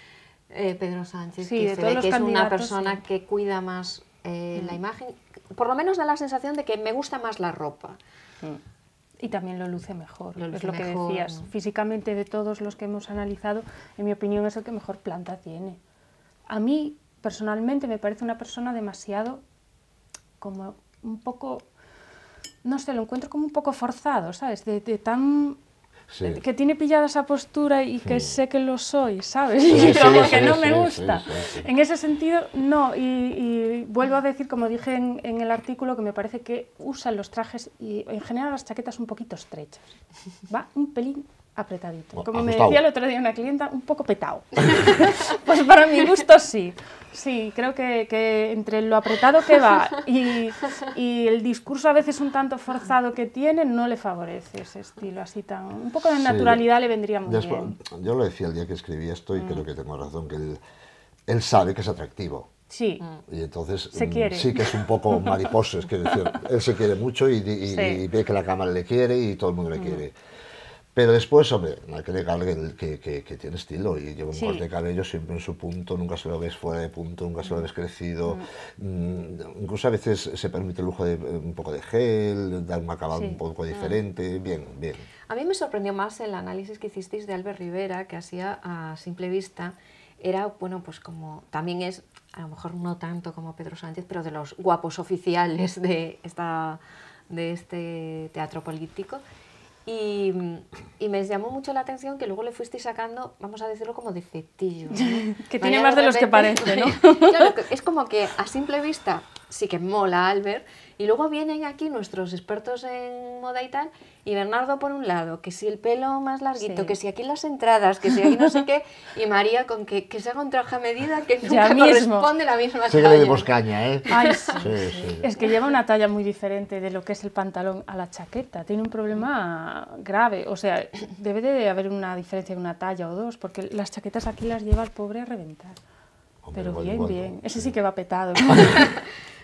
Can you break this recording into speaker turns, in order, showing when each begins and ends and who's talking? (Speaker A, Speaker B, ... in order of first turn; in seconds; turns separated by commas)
Speaker A: 0.5-8.0, Speaker B: 1.4-3.0, Speaker B: 9.2-15.8, Speaker A: 10.4-11.5, Speaker B: 16.5-19.4, Speaker B: 20.4-21.6, Speaker B: 22.6-25.6, Speaker C: 26.1-26.4, Speaker B: 26.2-39.9, Speaker C: 28.1-28.4, Speaker C: 29.7-31.7, Speaker B: 40.5-57.8, Speaker C: 42.1-42.8, Speaker C: 56.2-56.7, Speaker C: 57.2-60.6, Speaker B: 59.4-59.6, Speaker C: 61.3-62.5, Speaker B: 62.7-63.0, Speaker C: 63.3-70.1, Speaker B: 63.9-65.5, Speaker B: 66.1-66.4, Speaker B: 67.7-68.0, Speaker B: 69.8-70.0, Speaker C: 71.0-85.1, Speaker B: 74.3-74.7, Speaker B: 83.1-83.4, Speaker A: 83.7-84.0, Speaker A: 85.3-99.2, Speaker A: 99.9-123.5, Speaker B: 104.9-107.5, Speaker B: 116.6-117.0, Speaker B: 121.4-122.3, Speaker C: 122.9-125.3, Speaker A: 124.1-124.7, Speaker B: 124.1-135.8, Speaker C: 136.4-137.8, Speaker B: 136.5-138.9, Speaker C: 138.5-138.8